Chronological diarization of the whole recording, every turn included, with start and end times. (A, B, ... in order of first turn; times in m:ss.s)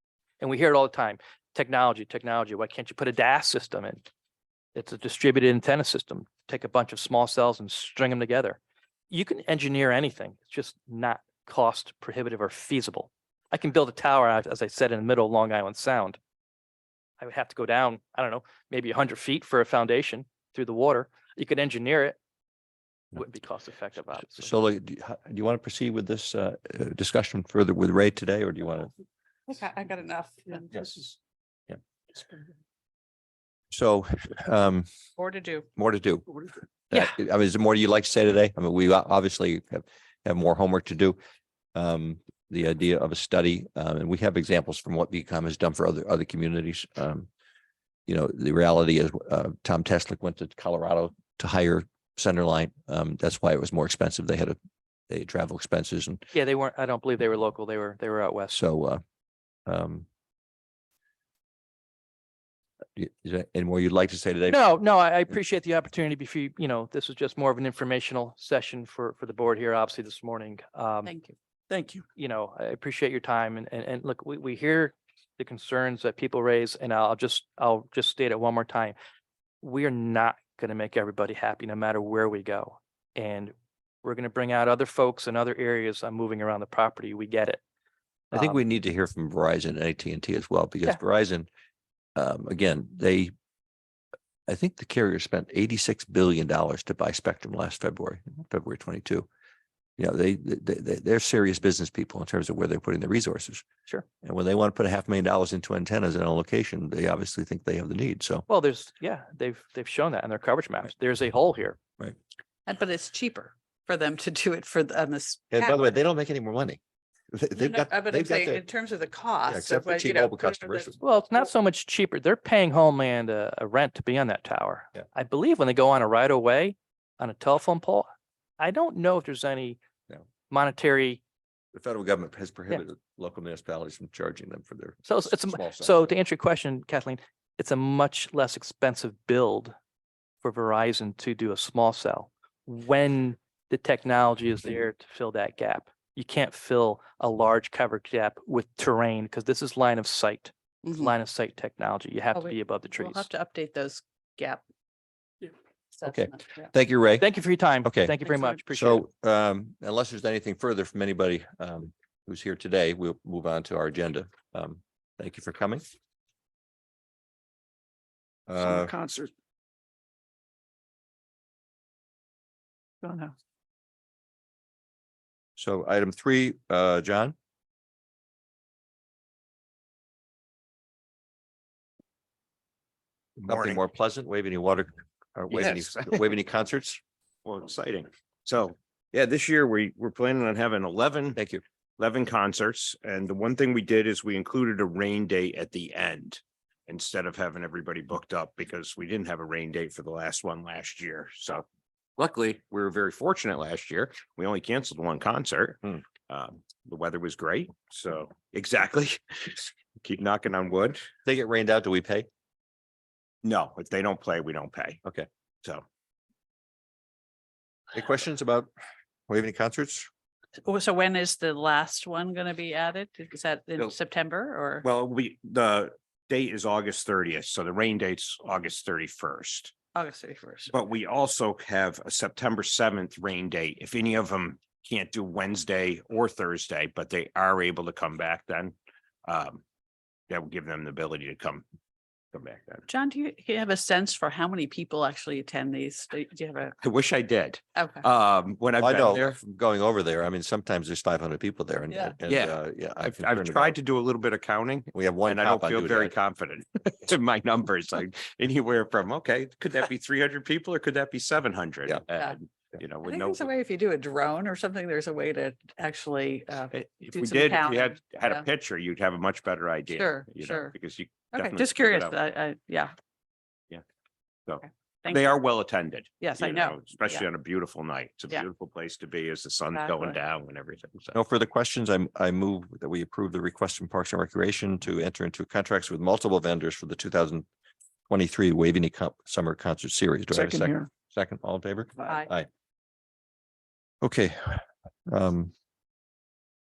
0:00.4-0:04.0 A
0:04.7-0:16.2 A
0:17.2-0:22.2 A
0:23.1-0:24.5 A
0:24.4-0:28.9 B
0:29.5-0:30.9 C
0:33.7-0:34.9 B
0:35.2-0:35.7 C
0:35.8-0:41.2 B
0:41.7-0:47.3 B
0:48.1-0:54.6 B
0:55.1-0:56.2 B
0:56.3-0:58.6 A
0:58.5-0:59.0 B
0:59.6-1:00.0 B
1:03.0-1:04.6 B
1:04.5-1:11.1 A
1:11.0-1:11.3 C
1:11.7-1:12.0 D
1:12.1-1:19.0 A
1:19.6-1:27.6 A
1:28.3-1:31.5 B
1:32.2-1:33.3 B
1:34.5-1:39.3 B
1:40.0-1:43.7 B
1:44.2-1:48.4 B
1:48.5-1:51.8 A
1:52.7-1:55.9 C
1:55.5-1:56.8 B
1:57.3-1:58.6 B
1:57.6-2:00.9 C
1:59.4-2:01.0 B
2:01.0-2:08.1 A
2:08.6-2:09.8 A
2:10.5-2:11.2 A
2:11.7-2:16.1 B
2:15.1-2:19.7 A
2:20.4-2:33.3 A
2:30.8-2:31.1 C
2:32.3-2:34.6 C
2:35.4-2:36.7 C
2:36.0-2:37.3 B
2:37.2-2:39.0 A
2:37.8-2:38.2 B
2:38.7-2:45.8 B
2:48.5-2:48.9 B
2:48.6-2:49.3 D
2:53.0-2:53.3 D
2:55.6-2:57.3 B
3:03.4-3:03.8 E
3:03.4-3:07.0 B
3:05.5-3:06.1 E
3:07.4-3:11.4 E
3:11.3-3:11.6 B
3:12.0-3:21.6 E
3:22.2-3:31.1 E
3:31.2-3:32.3 B
3:33.4-3:35.0 E
3:37.9-3:38.7 B
3:39.3-3:40.1 B
3:40.6-3:44.8 C
3:44.8-3:49.7 E
3:49.9-3:50.7 C
3:50.7-3:58.7 E
3:59.2-3:59.6 E
4:00.3-4:01.6 E
4:02.3-4:02.8 E
4:02.9-4:06.8 C
4:06.8-4:09.4 E
4:07.8-4:08.0 C
4:08.8-4:13.7 B
4:12.3-4:23.5 E
4:14.9-4:16.1 B
4:23.0-4:28.4 C
4:26.7-4:32.2 E
4:29.9-4:30.7 C
4:31.3-4:32.9 C
4:34.5-4:41.2 E
4:35.0-4:35.3 C
4:36.2-4:37.2 C
4:39.7-4:40.2 C
4:41.1-4:47.4 B
4:48.1-4:52.5 B
4:50.4-4:50.8 D
4:54.0-4:55.5 B